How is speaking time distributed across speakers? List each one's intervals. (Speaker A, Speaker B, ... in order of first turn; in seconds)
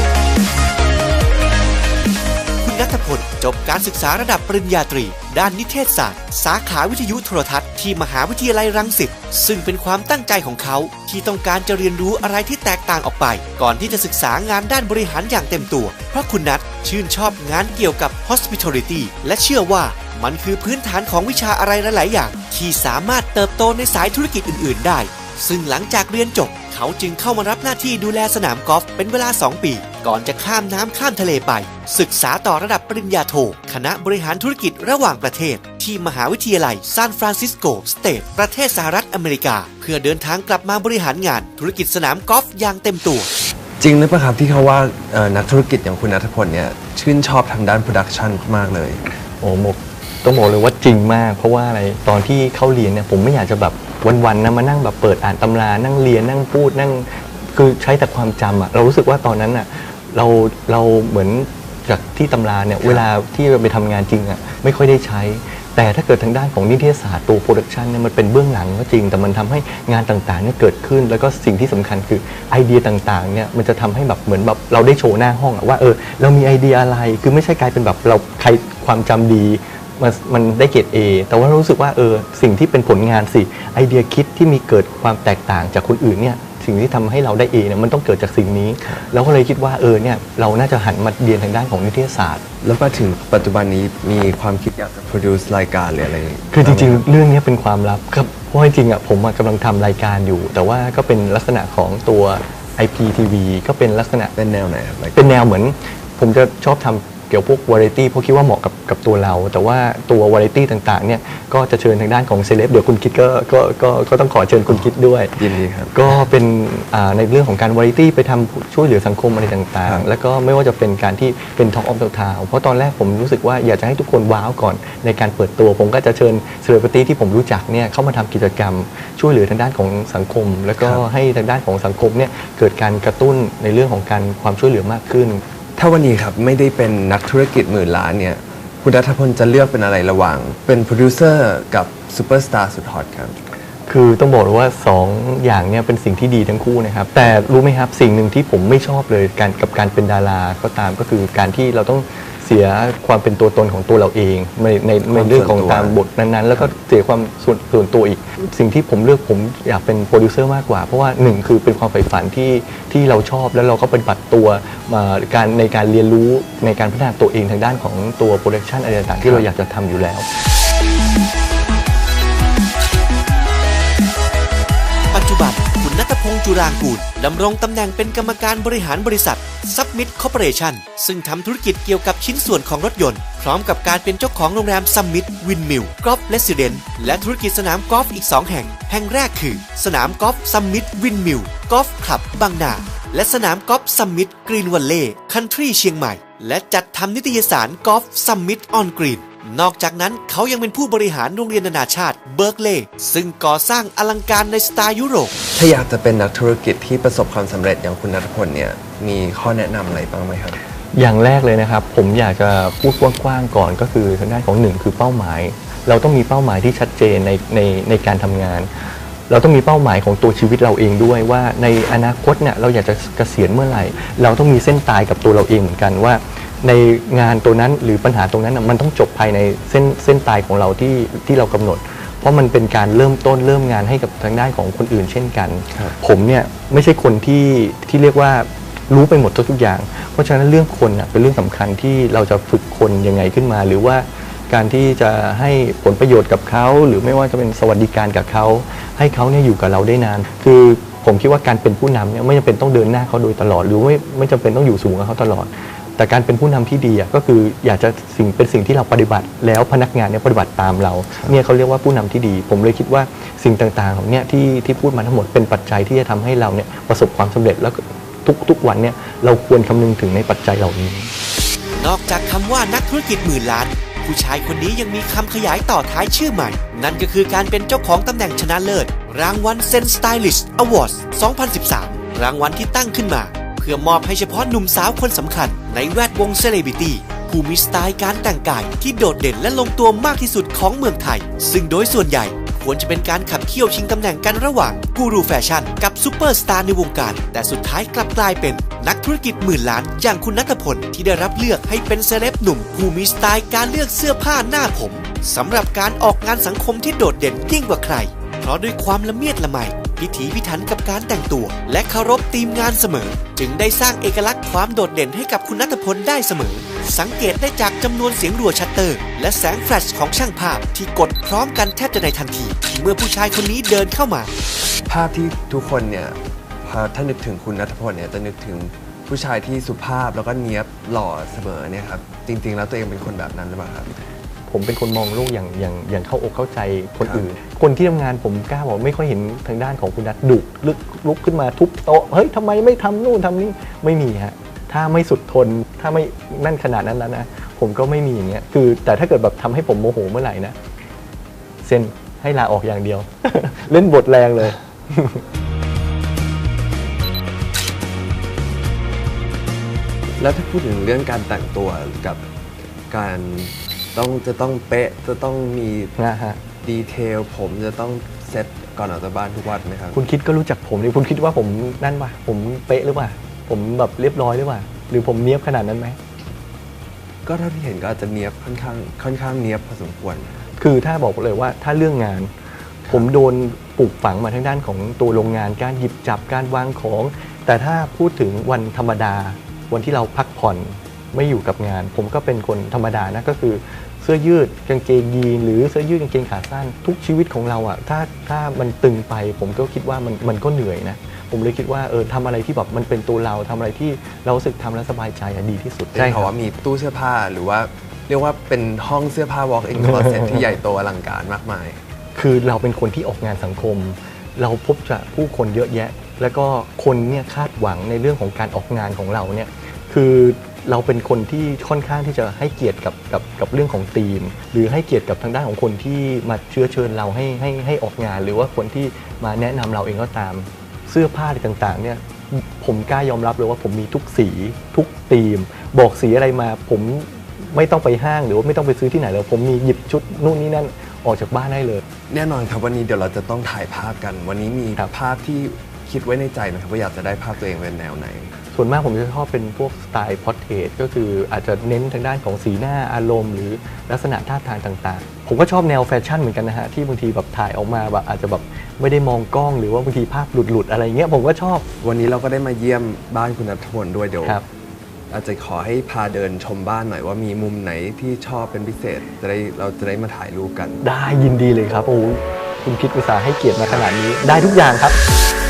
Speaker A: 2.6-43.3, 175.1-205.3, 271.8-324.3
Speaker B: 43.8-49.0, 92.6-97.0, 104.4-105.3, 114.7-116.1, 135.8-143.4, 155.0-156.0, 169.2-169.5, 205.6-210.6, 324.9-333.9, 360.2-362.2, 362.9-365.9, 366.6-370.0, 377.2-380.4, 405.9-411.8, 442.1-448.3, 461.8-464.4, 465.1-470.8
Speaker C: 49.4-92.4, 96.5-104.3, 105.1-135.4, 143.9-170.3, 210.9-218.7, 219.3-271.1, 334.5-350.6, 351.6-355.2, 366.0-366.4, 369.9-376.0, 380.6-382.3, 382.9-406.3, 409.8-410.4, 412.1-441.8, 448.5-461.6, 470.8-475.0